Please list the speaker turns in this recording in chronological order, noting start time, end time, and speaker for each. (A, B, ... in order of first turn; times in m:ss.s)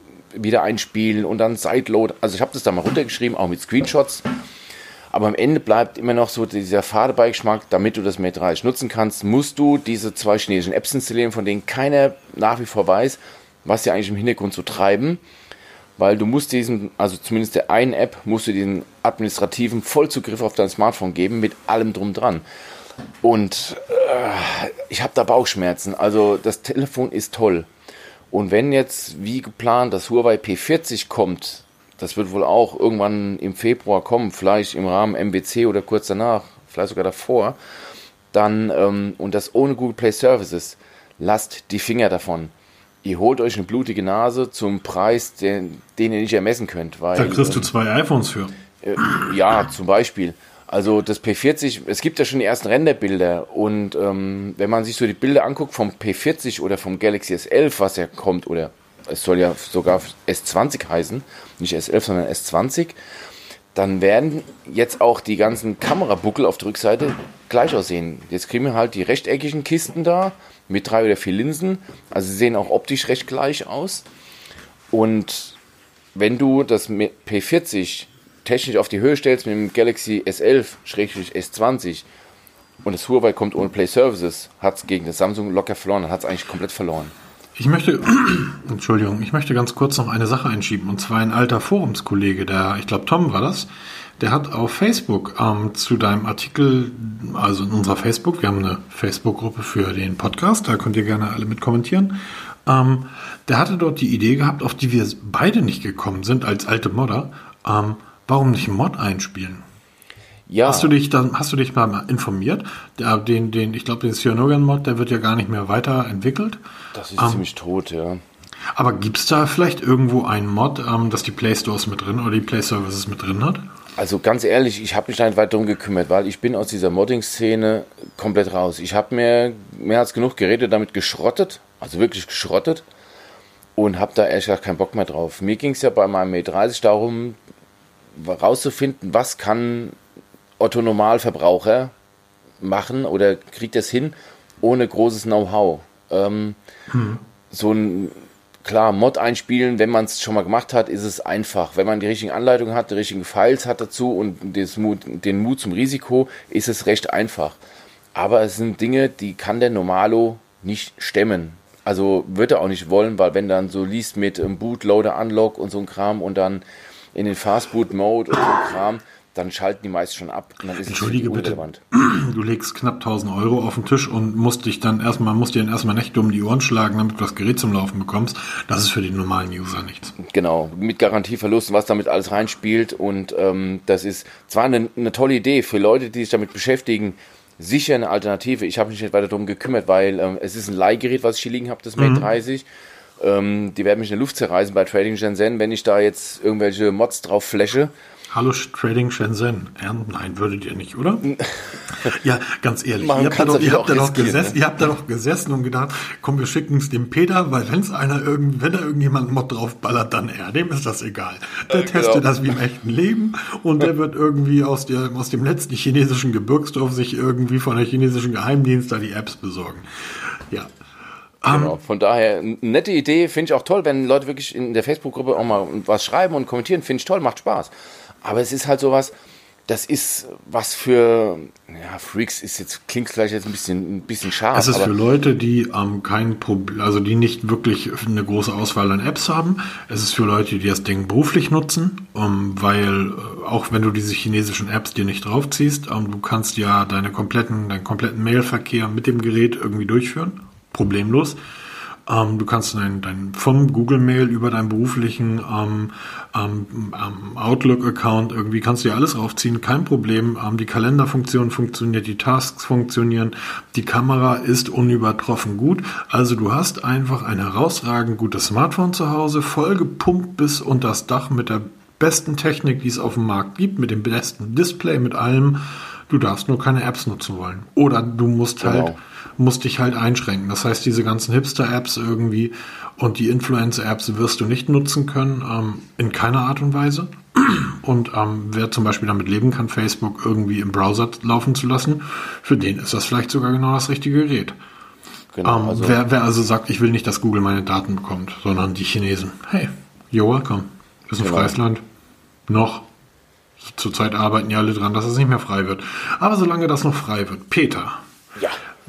0:00.3-0:04.2 A
0:05.1-0:15.2 A
0:16.0-0:22.4 A
0:23.2-0:27.7 A
0:28.3-0:37.6 A
0:38.3-0:42.5 A
0:43.0-0:47.7 A
0:47.1-0:49.3 B
0:48.8-1:03.0 A
1:03.7-1:14.0 A
1:14.9-1:15.6 A
1:16.1-1:22.0 A
1:22.8-1:27.1 A
1:27.5-1:33.7 B
1:34.2-1:49.6 B
1:50.5-1:50.9 A
1:50.6-1:56.6 B
1:56.9-1:58.2 A
1:57.2-1:57.4 B
1:58.7-2:03.6 B
2:04.0-2:12.8 A
2:13.8-2:17.4 A
2:18.2-2:20.0 A
2:20.6-2:21.9 A
2:22.6-2:26.6 A
2:26.9-2:27.2 B
2:27.5-2:37.6 A
2:38.1-2:46.6 A
2:47.1-2:51.8 A
2:50.8-3:00.1 B
3:00.2-3:12.6 A
3:12.0-3:12.2 B
3:13.2-3:17.9 A
3:18.3-3:21.4 B
3:21.4-3:22.1 A
3:21.9-3:40.7 B
3:23.0-3:24.6 A
3:31.7-3:32.3 A
3:41.4-3:41.8 B
3:41.5-3:49.1 A
3:49.7-3:54.9 A
3:54.5-4:11.4 B
4:12.0-4:54.5 B
4:38.6-4:39.0 A
4:55.3-4:56.0 A
4:55.4-5:01.8 B
5:01.2-5:01.5 A
5:02.5-5:02.9 B
5:03.6-5:08.0 B